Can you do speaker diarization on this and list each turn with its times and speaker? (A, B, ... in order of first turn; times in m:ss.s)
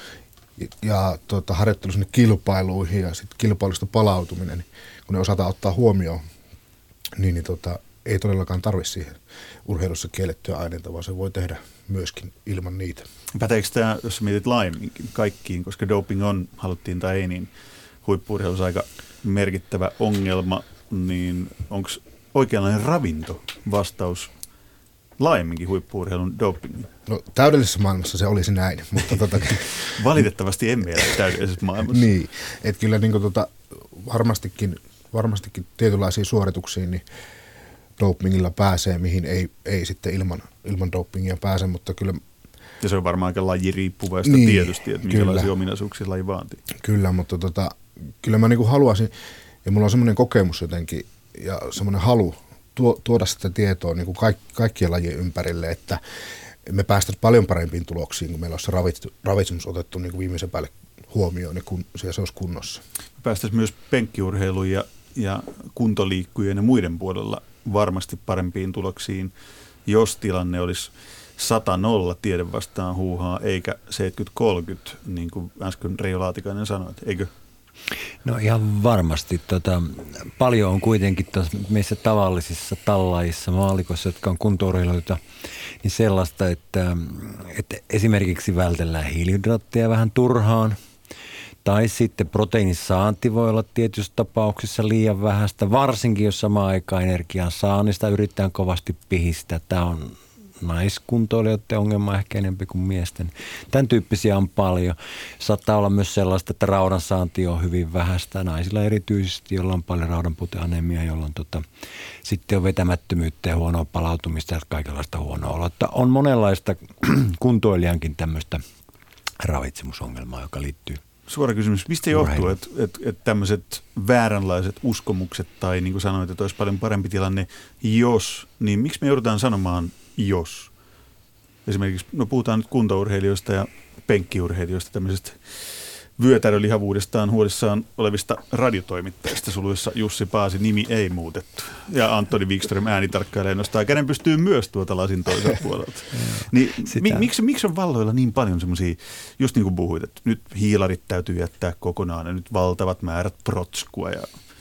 0:00.6-0:06.2 A
0:07.2-0:13.1 A
0:13.3-0:17.5 B
0:18.0-0:24.3 B
0:25.2-0:26.9 B
0:27.1-0:29.8 A
0:29.6-0:32.1 B
0:31.9-0:37.0 A
0:38.0-0:42.2 A
0:42.8-0:46.6 B
0:44.2-0:45.5 A
0:46.8-0:49.1 A
0:49.6-0:56.0 A
0:56.6-1:02.8 A
1:03.2-1:09.3 B
1:09.8-1:17.3 B
1:18.2-1:25.2 C
1:25.8-1:30.8 C
1:31.6-1:51.6 C
1:52.2-1:58.6 C
1:59.4-2:01.0 C
2:01.3-2:10.7 B
2:02.1-2:02.5 C
2:11.6-2:15.4 B
2:16.2-2:34.3 B
2:26.1-2:27.2 C